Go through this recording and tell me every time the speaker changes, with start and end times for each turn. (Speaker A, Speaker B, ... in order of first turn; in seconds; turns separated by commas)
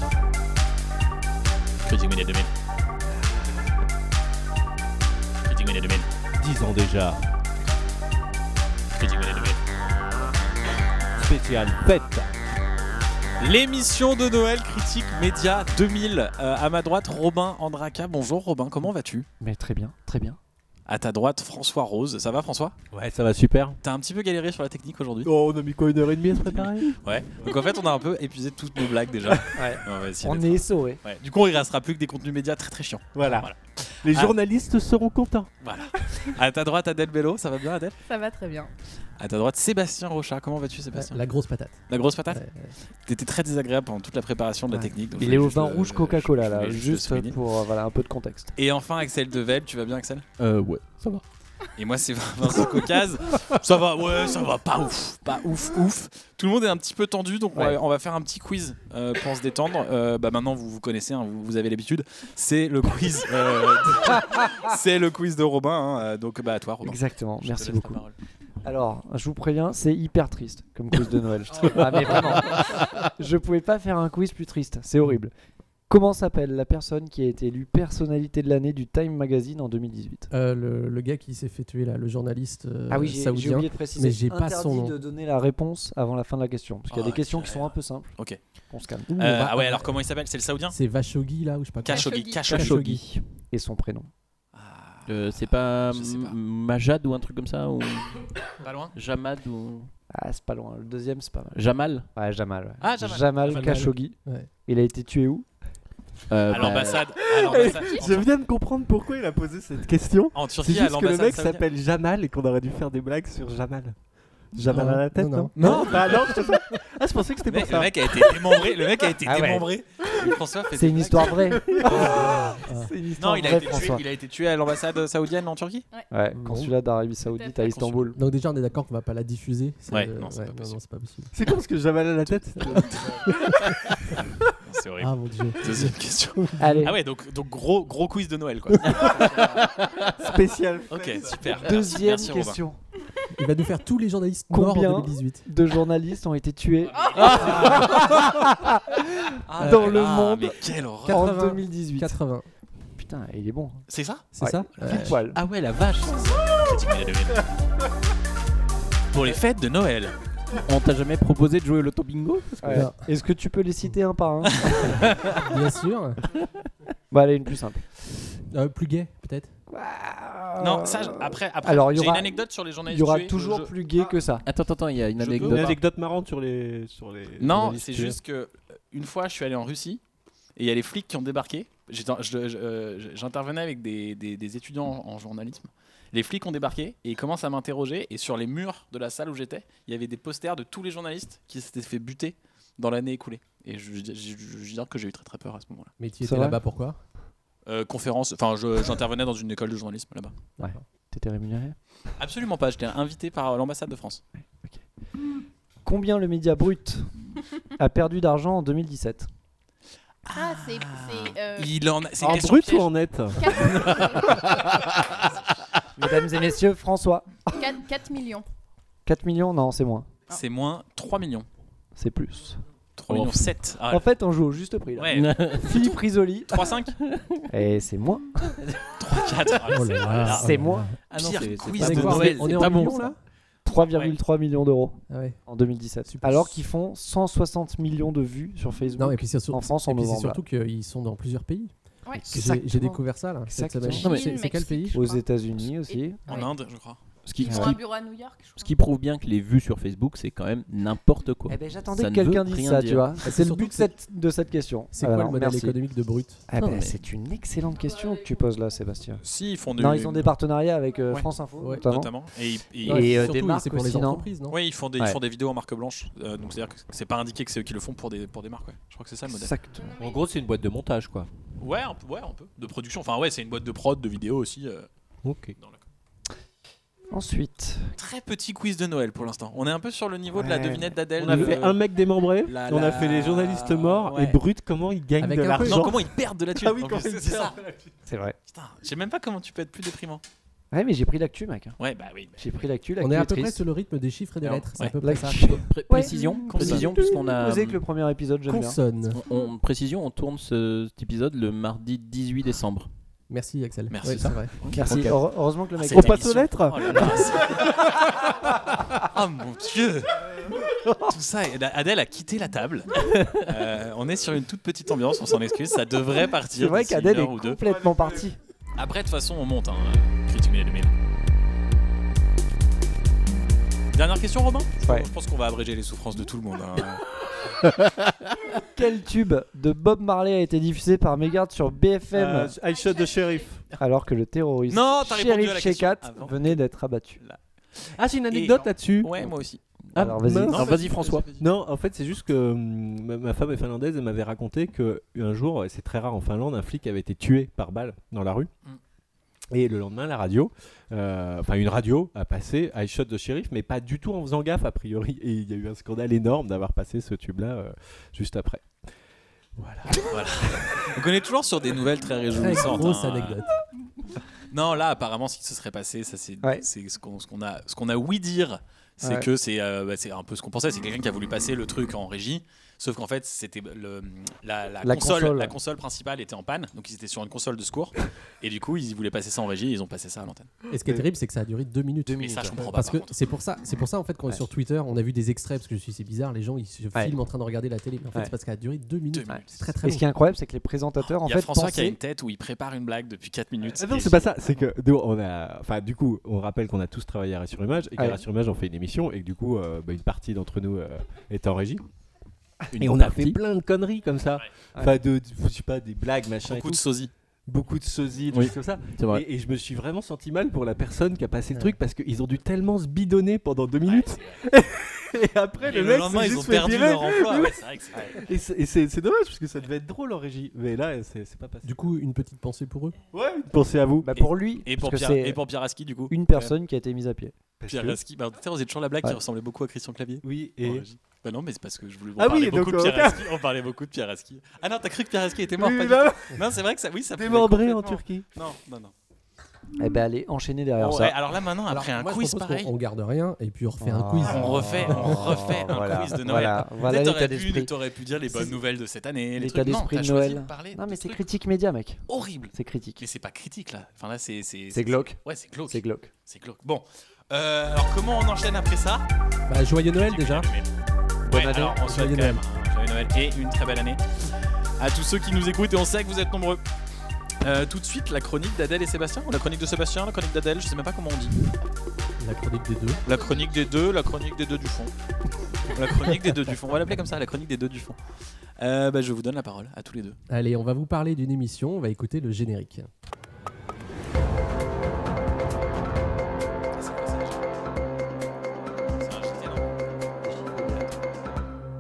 Speaker A: 1.9-2.5, Speaker A: 5.5-6.1, Speaker B: 6.4-7.2, Speaker A: 9.0-9.6, Speaker B: 11.2-12.3, Speaker A: 13.4-19.3, Speaker C: 19.4-20.4, Speaker A: 20.9-22.8, Speaker B: 22.9-23.8, Speaker A: 23.8-25.3, Speaker B: 25.2-27.6, Speaker A: 26.6-34.3, Speaker C: 29.6-31.0, Speaker B: 33.1-33.5, Speaker B: 34.0-35.5, Speaker A: 35.6-38.0, Speaker D: 38.1-38.7, Speaker A: 39.2-41.2, Speaker E: 40.9-42.7, Speaker A: 41.9-42.4, Speaker A: 43.0-47.4, Speaker C: 44.7-48.5, Speaker A: 48.6-50.3, Speaker F: 50.4-51.2, Speaker A: 51.8-68.2, Speaker C: 57.5-57.8, Speaker C: 66.8-68.0, Speaker C: 68.6-75.3, Speaker C: 75.9-80.3, Speaker E: 80.3-85.0, Speaker C: 82.9-88.2, Speaker A: 86.9-88.4, Speaker C: 88.7-89.2, Speaker E: 89.1-90.0, Speaker A: 89.2-90.8, Speaker E: 90.7-93.2, Speaker A: 91.8-93.0, Speaker D: 91.9-92.5, Speaker C: 92.5-92.8, Speaker C: 93.5-94.1, Speaker A: 94.5-96.4, Speaker F: 95.1-98.2, Speaker A: 98.6-99.0, Speaker F: 98.9-99.9, Speaker C: 100.1-101.6, Speaker F: 101.5-102.1, Speaker C: 102.1-105.5, Speaker A: 102.8-103.9, Speaker E: 103.5-104.5, Speaker F: 106.3-107.2, Speaker A: 106.5-108.3, Speaker D: 106.5-108.3, Speaker B: 107.2-114.0, Speaker A: 110.3-111.7, Speaker B: 114.5-118.4, Speaker E: 114.6-115.9, Speaker A: 115.5-116.4, Speaker A: 117.5-122.4, Speaker C: 119.3-119.7, Speaker C: 120.7-124.0, Speaker E: 121.8-122.9, Speaker A: 123.2-125.9, Speaker C: 126.1-128.2, Speaker E: 126.3-126.8, Speaker D: 127.3-127.8, Speaker A: 127.6-128.1, Speaker E: 128.2-131.3, Speaker A: 129.9-130.8, Speaker B: 131.3-133.3, Speaker A: 132.3-133.3, Speaker E: 132.6-133.8, Speaker A: 134.6-139.8, Speaker E: 135.0-136.7, Speaker C: 136.6-136.9, Speaker F: 139.8-140.1, Speaker B: 140.2-141.5, Speaker A: 140.9-142.6, Speaker C: 141.6-142.8, Speaker E: 143.3-145.5, Speaker C: 144.5-152.2, Speaker A: 146.9-148.2, Speaker D: 147.0-147.7, Speaker A: 149.5-151.3, Speaker E: 149.6-150.1, Speaker E: 151.1-152.5, Speaker C: 153.0-153.8, Speaker A: 153.9-154.3, Speaker E: 154.3-155.2, Speaker C: 154.4-155.4, Speaker A: 154.8-157.5, Speaker A: 159.1-160.2, Speaker F: 160.6-162.8, Speaker C: 162.6-165.0, Speaker E: 162.7-163.0, Speaker E: 165.3-166.2, Speaker C: 167.1-167.9, Speaker E: 168.5-169.5, Speaker C: 169.7-174.4, Speaker A: 170.6-173.7, Speaker F: 174.4-175.8, Speaker A: 175.2-175.8, Speaker B: 175.4-178.2, Speaker A: 177.4-180.0, Speaker A: 180.6-195.9, Speaker E: 196.0-197.0, Speaker C: 196.2-196.6, Speaker A: 197.7-200.3, Speaker C: 200.6-201.8, Speaker A: 202.2-204.2, Speaker C: 205.8-207.1, Speaker C: 207.8-209.3, Speaker A: 210.3-212.9, Speaker D: 210.3-214.4, Speaker B: 212.2-215.3, Speaker C: 216.0-217.7, Speaker D: 217.6-218.5, Speaker C: 219.1-220.1, Speaker A: 220.3-221.5, Speaker C: 222.0-222.6, Speaker A: 223.0-224.1, Speaker F: 223.1-223.5, Speaker C: 223.9-226.8, Speaker A: 225.0-227.0, Speaker F: 225.1-225.7, Speaker F: 227.1-227.5, Speaker C: 227.5-228.5, Speaker A: 229.0-230.5, Speaker E: 229.7-230.9, Speaker C: 230.2-231.0, Speaker F: 231.1-233.1, Speaker A: 231.1-233.1, Speaker B: 231.2-232.4, Speaker E: 231.8-233.2, Speaker C: 233.7-240.4, Speaker A: 233.7-234.2, Speaker E: 235.1-235.4, Speaker E: 236.1-236.6, Speaker E: 239.0-241.7, Speaker C: 242.2-244.1, Speaker E: 242.3-245.0, Speaker F: 244.0-244.3, Speaker D: 244.0-245.3, Speaker C: 244.9-246.2, Speaker D: 245.9-246.5, Speaker A: 246.3-247.0, Speaker F: 247.3-247.8, Speaker D: 247.4-248.8, Speaker C: 247.5-247.7, Speaker F: 248.6-253.2, Speaker C: 251.5-255.8, Speaker E: 253.2-253.9, Speaker E: 254.9-256.4, Speaker C: 256.5-259.2, Speaker F: 256.6-257.0, Speaker D: 257.8-258.2, Speaker A: 259.2-260.3, Speaker C: 259.8-262.1, Speaker E: 261.6-261.9, Speaker A: 261.8-263.3, Speaker E: 262.8-264.6, Speaker C: 262.8-264.3, Speaker A: 264.5-269.5, Speaker C: 269.3-270.0, Speaker F: 270.0-271.3, Speaker B: 270.6-270.9, Speaker A: 271.6-274.9, Speaker B: 275.2-275.6, Speaker A: 275.6-275.8, Speaker C: 277.1-277.9, Speaker A: 278.0-281.8, Speaker C: 280.3-281.5, Speaker B: 281.2-288.0, Speaker A: 282.4-284.4, Speaker E: 285.2-285.9, Speaker A: 285.6-287.6, Speaker C: 288.1-288.4, Speaker A: 288.5-290.2, Speaker C: 290.7-291.8, Speaker A: 291.8-292.4, Speaker C: 292.4-293.6, Speaker E: 293.0-295.6, Speaker C: 295.0-298.8, Speaker F: 295.4-297.8, Speaker A: 296.4-296.9, Speaker E: 298.5-299.2, Speaker F: 299.1-302.9, Speaker E: 303.3-304.5, Speaker A: 303.9-304.8, Speaker F: 304.6-305.3, Speaker C: 304.7-307.1, Speaker A: 305.8-310.2, Speaker B: 305.9-307.3, Speaker A: 311.0-317.6, Speaker F: 313.0-313.4, Speaker C: 316.4-318.4, Speaker A: 318.8-320.9, Speaker A: 323.9-327.0, Speaker C: 328.7-332.6, Speaker B: 332.1-333.7, Speaker D: 332.9-333.1, Speaker C: 333.8-337.2, Speaker A: 334.7-336.6, Speaker B: 338.0-339.4, Speaker A: 338.3-339.6, Speaker B: 339.9-348.5, Speaker C: 340.0-340.6, Speaker F: 340.1-341.3, Speaker A: 340.5-341.5, Speaker B: 349.5-358.6, Speaker B: 359.6-360.2, Speaker A: 359.9-363.4, Speaker E: 362.3-363.6, Speaker A: 364.5-380.5, Speaker C: 369.0-369.3, Speaker C: 374.8-375.6, Speaker E: 380.7-390.1, Speaker C: 382.1-382.6, Speaker A: 382.2-383.1, Speaker A: 389.1-389.7, Speaker C: 389.8-392.0, Speaker A: 391.1-394.4, Speaker B: 393.6-401.8, Speaker C: 398.0-398.2, Speaker F: 402.7-403.4, Speaker B: 402.8-406.9, Speaker A: 406.4-407.1, Speaker B: 407.5-421.7, Speaker F: 408.3-409.2, Speaker A: 413.9-414.4, Speaker A: 415.6-418.2, Speaker E: 421.6-423.0, Speaker B: 423.1-424.1, Speaker C: 424.0-425.4, Speaker A: 424.1-426.5, Speaker C: 426.1-427.4, Speaker B: 427.6-428.0, Speaker A: 427.7-438.9, Speaker B: 430.2-430.9, Speaker B: 432.2-433.3, Speaker B: 435.6-436.4, Speaker B: 437.1-438.3, Speaker C: 439.8-441.2, Speaker A: 440.8-442.7, Speaker E: 441.7-445.5, Speaker C: 443.8-447.7, Speaker A: 444.3-451.2, Speaker C: 448.3-448.6, Speaker C: 449.4-453.0, Speaker A: 452.1-459.1, Speaker C: 454.7-455.2, Speaker C: 455.7-456.1, Speaker E: 459.5-460.5, Speaker A: 459.9-460.7, Speaker E: 461.3-462.4, Speaker A: 461.3-464.0, Speaker A: 464.8-466.6, Speaker A: 467.4-471.4, Speaker E: 472.2-473.0, Speaker D: 472.9-473.7, Speaker A: 473.1-474.9, Speaker A: 475.7-478.0, Speaker A: 478.6-480.2, Speaker E: 480.3-482.9, Speaker A: 486.8-487.6, Speaker A: 489.0-489.7, Speaker C: 490.2-491.0